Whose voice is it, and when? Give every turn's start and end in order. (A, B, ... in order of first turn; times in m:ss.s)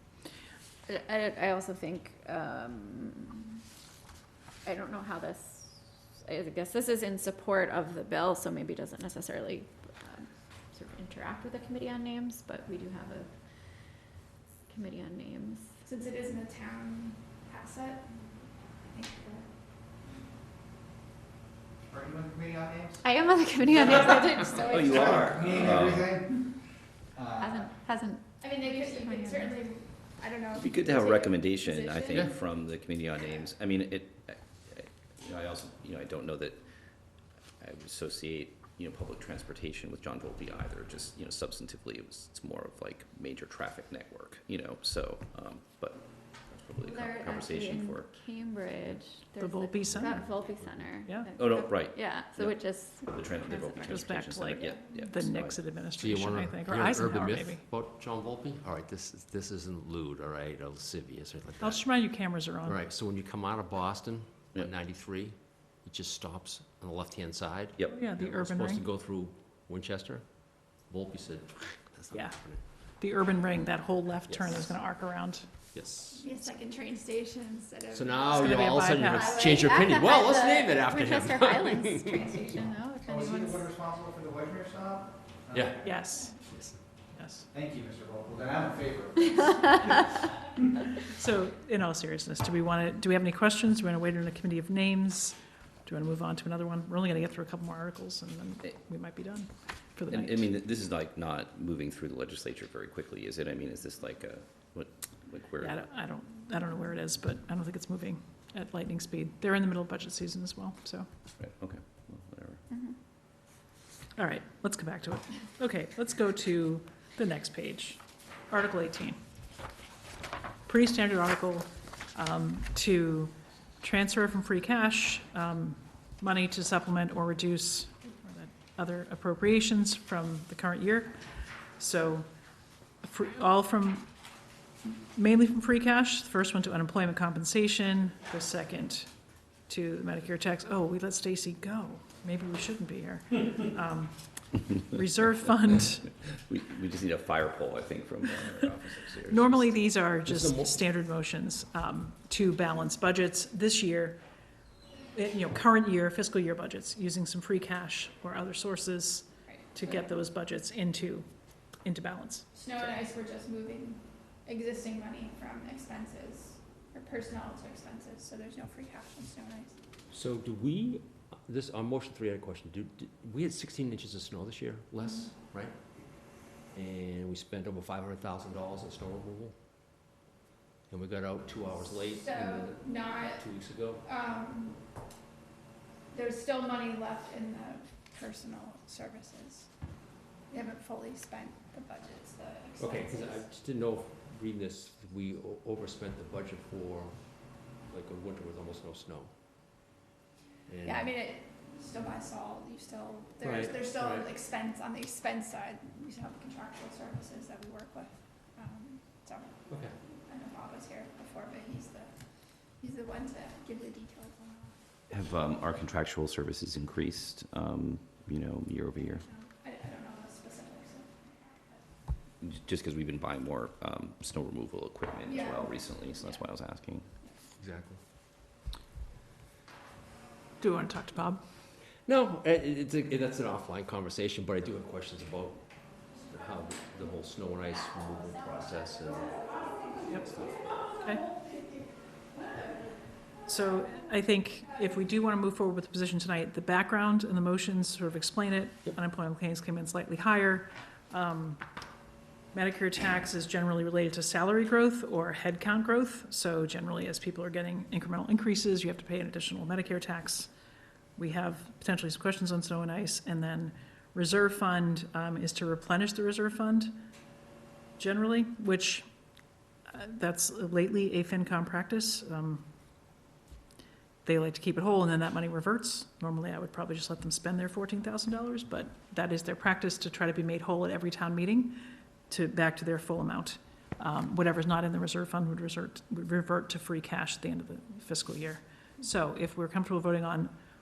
0:00.9-0:03.6 A
0:04.6-0:13.3 A
0:14.7-0:15.7 A
0:15.8-0:18.0 B
0:18.9-0:19.5 B
0:21.9-0:23.0 C
0:23.0-0:25.5 A
0:24.5-0:26.3 D
0:25.4-0:26.3 C
0:27.4-0:29.7 A
0:28.4-0:32.4 B
0:30.5-0:36.6 D
0:37.6-0:48.1 D
0:46.8-0:54.9 A
0:49.4-0:50.2 E
0:49.9-0:50.8 F
0:51.3-0:55.7 D
0:53.9-0:57.6 E
0:56.0-1:01.8 F
1:01.6-1:02.8 E
1:02.6-1:12.6 F
1:07.9-1:08.8 E
1:12.1-1:12.4 E
1:13.0-1:15.5 E
1:14.3-1:14.6 F
1:15.7-1:16.2 F
1:16.2-1:19.1 B
1:17.9-1:22.4 F
1:18.4-1:19.2 E
1:19.2-1:23.7 A
1:23.1-1:25.7 C
1:25.5-1:25.8 F
1:25.8-1:26.3 E
1:26.4-1:26.7 F
1:27.2-1:27.5 E
1:27.5-1:30.0 C
1:31.1-1:35.3 E
1:35.8-1:40.5 E
1:40.1-1:45.8 D
1:45.6-1:51.1 E
1:51.4-1:52.6 D
1:52.7-1:53.0 A
1:54.2-1:59.2 E
2:00.7-2:11.1 E
2:11.8-2:12.2 E
2:13.0-2:14.1 E
2:14.9-2:19.0 E
2:19.7-2:26.1 E
2:26.5-2:29.8 D
2:29.2-2:34.2 E
2:30.2-2:30.8 F
2:35.1-2:41.2 E
2:39.4-2:40.0 B
2:41.8-2:42.9 E
2:42.5-2:49.8 B
2:50.1-2:59.6 F
3:00.9-3:04.0 F
3:02.1-3:03.4 B
3:04.0-3:04.8 B
3:06.1-3:09.7 B
3:10.5-3:13.4 B
3:12.8-3:19.3 F
3:20.7-3:21.1 F
3:20.8-3:29.6 B
3:23.4-3:24.3 F
3:29.7-3:30.0 F
3:30.3-3:32.1 B
3:32.8-3:34.8 B
3:35.1-3:39.3 D
3:39.3-3:41.8 B
3:42.4-3:47.1 D
3:45.3-3:46.1 B
3:47.6-3:48.0 F
3:50.6-3:51.4 E
3:52.0-4:00.8 F
4:01.0-4:01.3 E
4:03.4-4:11.6 E
4:12.5-4:20.5 E
4:21.2-4:26.9 E
4:28.0-4:29.0 E
4:30.0-4:32.7 E
4:34.2-4:50.5 E